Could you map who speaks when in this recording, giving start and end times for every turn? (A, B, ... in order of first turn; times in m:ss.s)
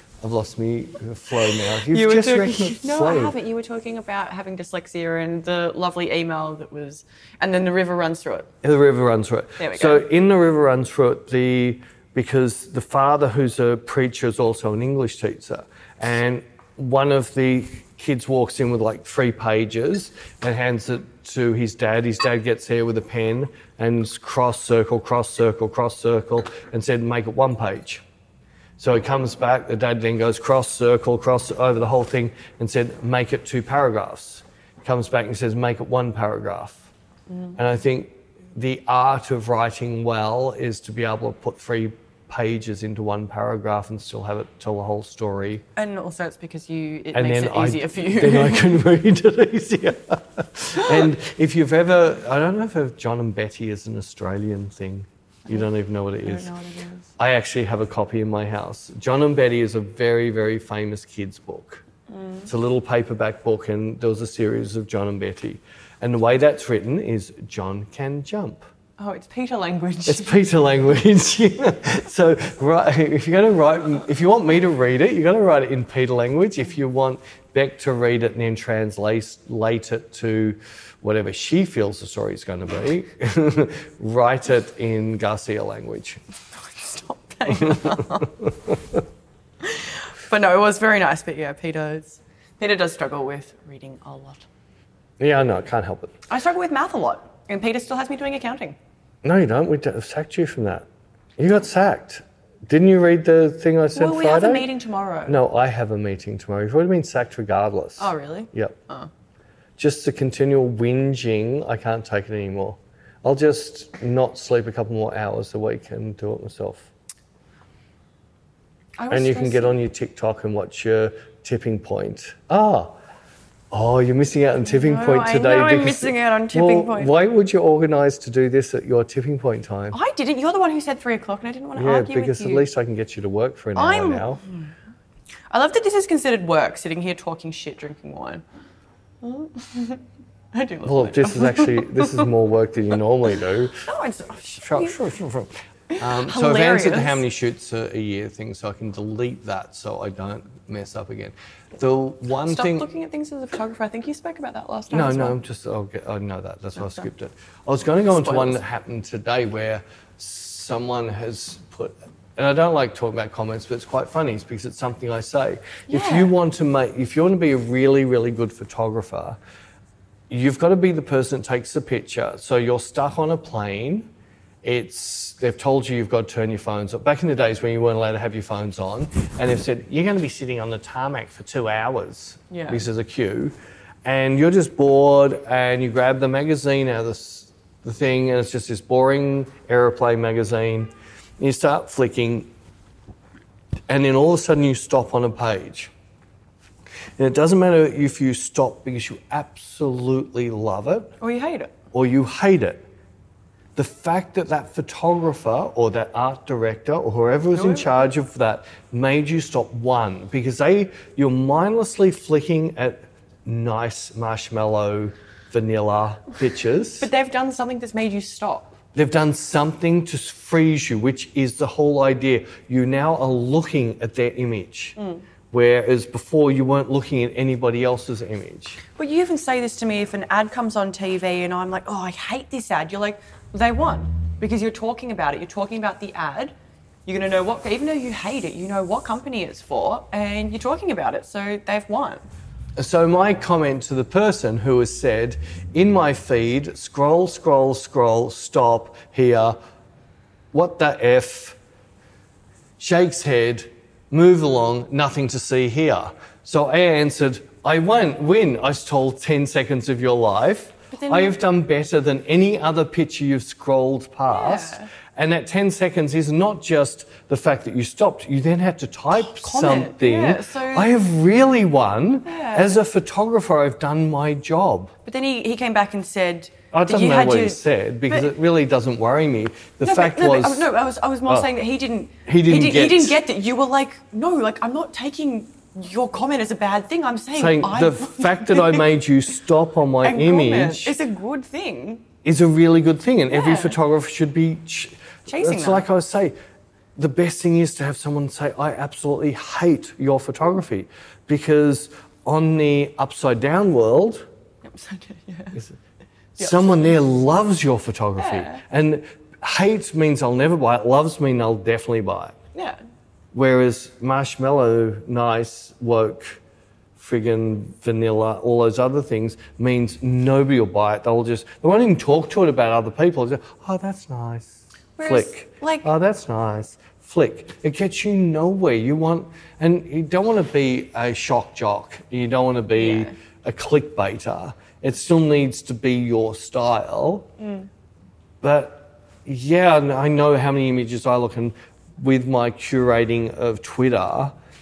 0:00.2-0:03.4 A
0:01.9-0:08.5 B
0:08.6-0:28.0 A
0:09.6-0:10.0 B
0:28.8-0:36.9 A
0:37.3-0:37.6 B
0:37.6-0:45.6 A
0:45.8-0:48.8 B
0:47.1-0:56.5 A
0:56.2-0:57.1 B
0:57.2-1:01.8 A
1:02.1-1:02.5 B
1:02.5-1:08.6 A
1:09.0-1:10.4 B
1:10.1-1:26.2 A
1:26.6-1:28.4 B
1:27.6-1:28.5 A
1:29.6-1:34.5 B
1:35.2-1:36.2 A
1:36.3-1:38.8 B
1:39.2-1:40.9 A
1:41.4-1:44.7 A
1:43.9-1:45.4 B
1:45.3-1:48.8 A
1:48.0-1:49.1 B
1:49.8-1:56.9 A
1:59.0-1:59.8 B
1:59.1-2:03.0 A
2:03.7-2:10.0 A
2:04.7-2:07.1 B
2:09.9-2:12.7 B
2:11.8-2:14.4 A
2:13.8-2:14.7 B
2:15.5-2:18.4 B
2:19.2-2:22.3 B
2:20.9-2:23.8 A
2:23.8-2:25.0 B
2:24.6-2:32.9 A
2:25.9-2:27.2 B
2:32.4-2:35.4 B
2:34.9-2:49.4 A
2:38.1-2:38.6 B
2:45.9-2:46.3 B
2:50.3-2:54.1 A
2:54.6-3:12.5 A
3:02.5-3:02.8 B
3:13.9-3:15.9 A
3:17.2-3:21.1 A
3:21.2-3:21.7 B
3:21.9-3:22.8 A
3:23.8-3:37.1 A
3:27.5-3:28.1 B
3:37.0-3:38.8 B
3:39.0-3:45.0 A
3:45.0-3:45.2 B
3:45.5-3:48.8 A
3:49.0-3:56.5 B
3:57.1-4:02.3 B
4:02.8-4:09.6 A
4:10.5-4:11.6 A
4:12.8-4:34.9 A
4:20.9-4:21.4 B
4:24.3-4:24.9 B
4:29.1-4:30.9 B
4:32.3-4:32.7 B
4:35.0-4:38.3 B
4:36.7-4:40.7 A
4:39.8-4:48.9 B
4:42.3-4:43.2 A
4:47.4-4:51.0 A
4:50.0-4:52.0 B
4:52.2-4:56.3 A
4:53.3-4:53.8 B
4:55.3-4:55.9 B
4:57.0-5:04.3 A
5:04.6-5:05.6 B
5:06.4-5:12.4 A
5:06.4-5:07.0 B
5:08.2-5:08.6 B
5:13.3-5:16.4 A
5:17.0-5:37.3 A
5:25.0-5:25.9 B
5:32.8-5:33.1 B
5:37.4-5:37.7 B
5:38.4-5:44.3 A